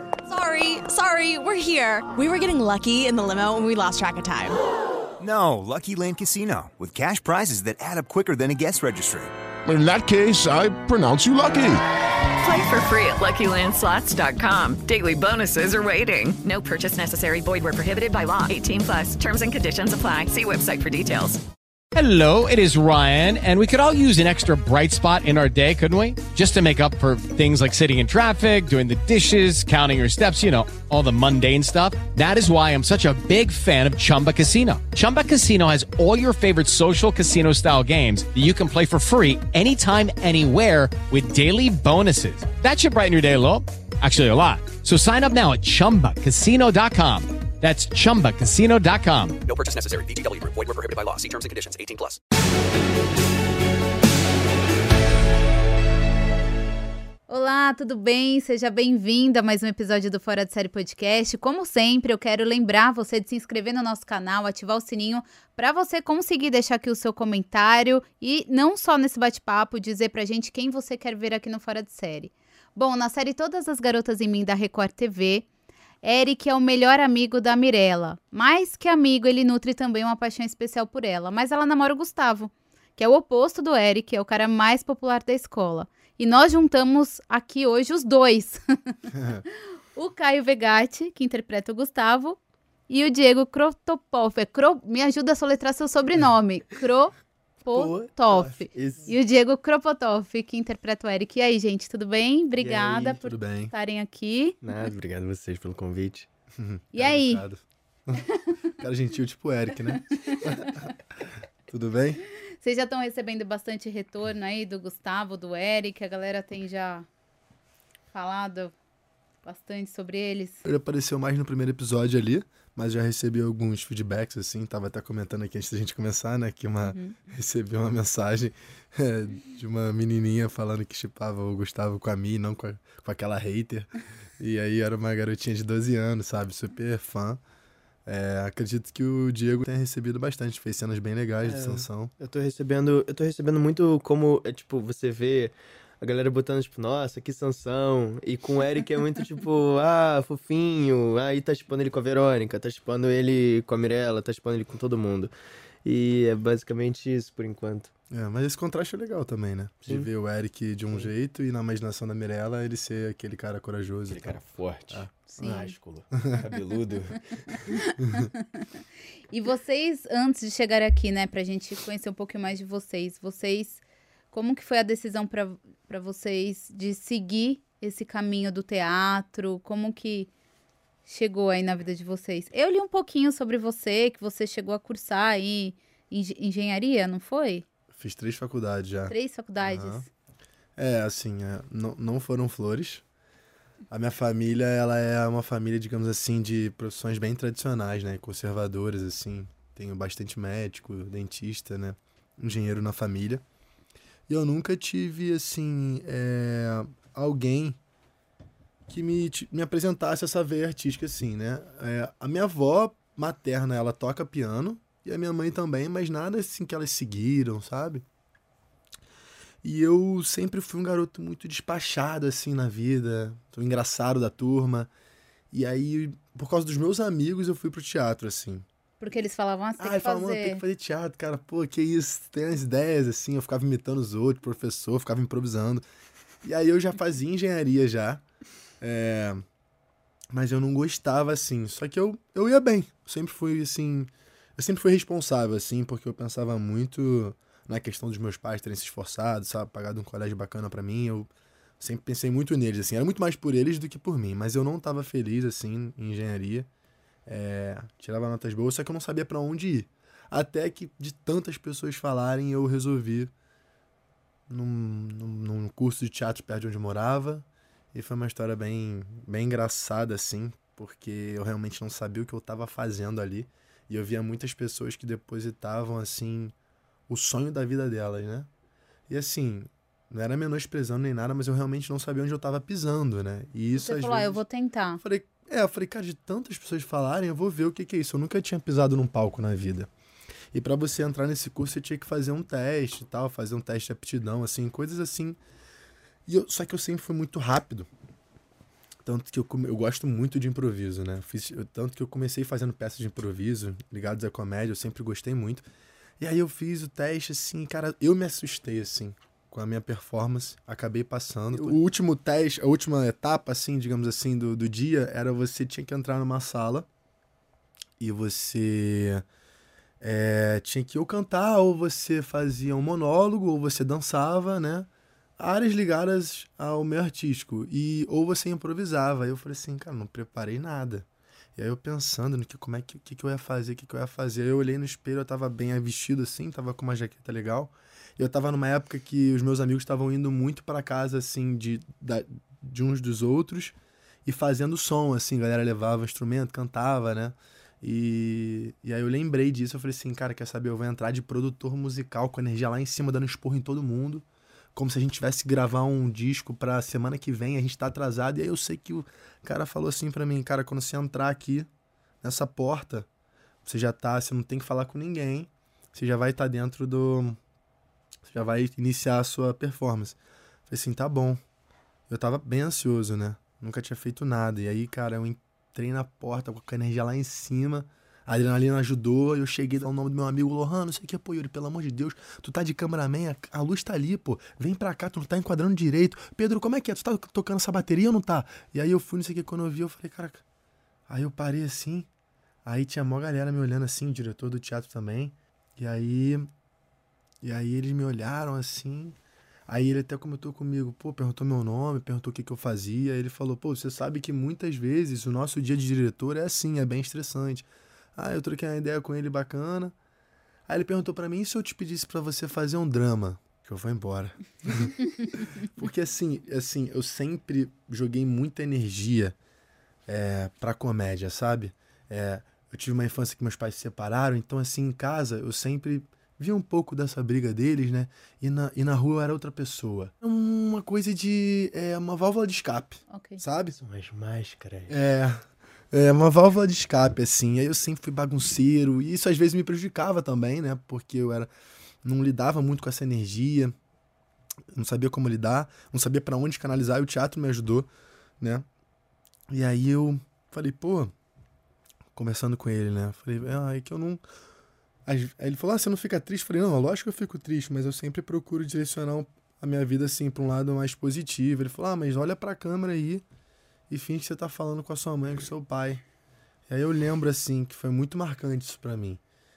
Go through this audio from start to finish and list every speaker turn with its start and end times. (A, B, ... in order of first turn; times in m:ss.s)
0:00.3-0:04.6 A
0:05.2-0:09.3 B
0:09.6-0:11.8 C
0:12.4-0:21.4 D
0:21.9-0:49.4 E
0:49.4-0:52.2 F
0:57.3-1:15.5 G
1:16.0-1:28.6 G
1:29.1-1:29.4 H
1:29.9-1:32.4 G
1:32.9-1:44.6 G
1:37.7-1:38.6 H
1:38.7-1:39.1 I
1:42.6-1:43.2 I
1:43.1-1:43.7 H
1:44.6-1:46.3 I
1:46.5-1:48.2 H
1:46.9-1:47.4 G
1:48.8-1:50.9 H
1:51.7-1:52.2 H
1:52.6-1:57.1 G
1:58.1-1:58.7 G
1:59.4-2:00.6 G
2:00.6-2:17.4 H
2:06.8-2:07.2 G
2:18.0-2:22.1 H
2:21.4-2:35.3 I
2:35.8-2:37.9 I
2:38.1-2:46.4 H
2:44.1-2:47.7 I
2:45.4-2:45.7 G
2:47.8-2:48.6 G
2:48.0-2:48.3 H
2:49.3-2:53.8 G
2:54.3-3:00.3 G
3:01.0-3:07.6 G
3:07.9-3:10.0 H
3:09.1-3:10.1 G
3:10.8-3:13.0 H
3:13.9-3:23.4 H
3:24.3-3:27.8 H
3:28.9-3:38.0 H
3:39.6-3:44.9 H
3:45.5-3:48.6 H
3:49.0-3:50.6 G
3:49.8-3:55.8 H
3:56.4-3:58.2 H
3:58.8-3:59.4 H
4:00.3-4:16.7 H
4:17.2-4:23.3 H
4:24.5-4:36.5 H
4:37.1-4:38.5 H
4:39.1-4:44.4 H
4:43.7-4:45.0 G
4:45.0-4:49.9 H
4:50.5-4:55.4 H
4:56.2-4:57.9 H
4:59.0-5:05.7 H
5:06.2-5:16.9 H
5:11.5-5:11.8 I
5:18.0-5:19.2 H
5:20.0-6:01.7 H
6:02.2-6:03.1 H
6:03.6-6:07.4 H
6:08.2-6:10.2 H
6:10.7-6:11.4 H
6:12.1-6:30.4 H
6:31.1-6:32.1 H
6:32.6-6:36.5 H
6:37.4-6:49.9 H
6:50.7-6:59.4 H
7:00.1-7:13.8 H
7:13.1-7:13.4 G
7:13.8-7:15.0 I
7:14.9-7:21.5 H
7:22.0-7:23.7 H
7:24.7-7:28.6 H
7:29.5-7:31.1 H
7:32.1-7:34.2 H
7:35.0-7:43.2 H
7:43.9-7:46.0 H
7:46.7-7:49.2 H